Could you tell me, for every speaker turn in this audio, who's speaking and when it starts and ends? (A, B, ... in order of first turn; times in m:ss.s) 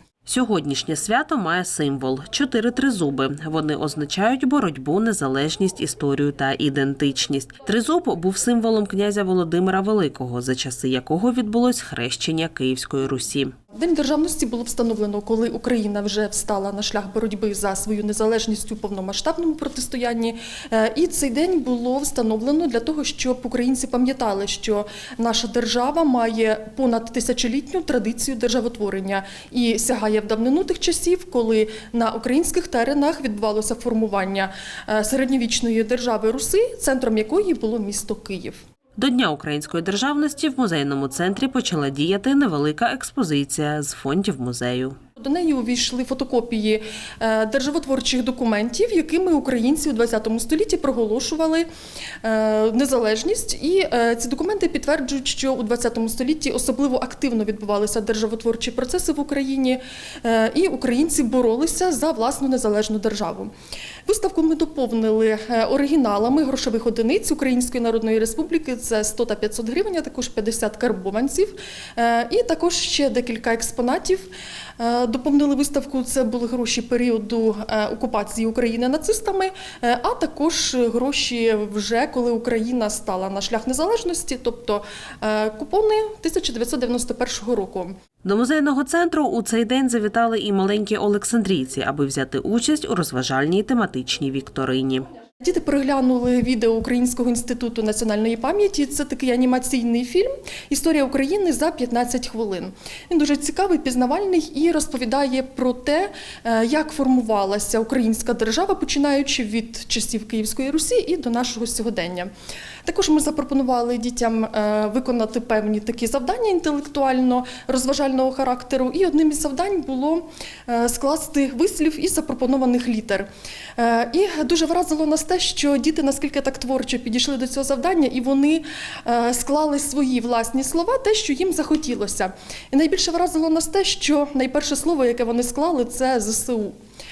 0:00.2-0:13.5 A
0:13.7-0:38.6 B
0:39.0-0:45.0 A
0:45.2-0:51.7 B
0:52.2-1:03.5 B
1:04.0-1:28.0 B
1:28.2-1:35.1 A
1:35.4-1:52.3 B
1:52.8-2:16.7 B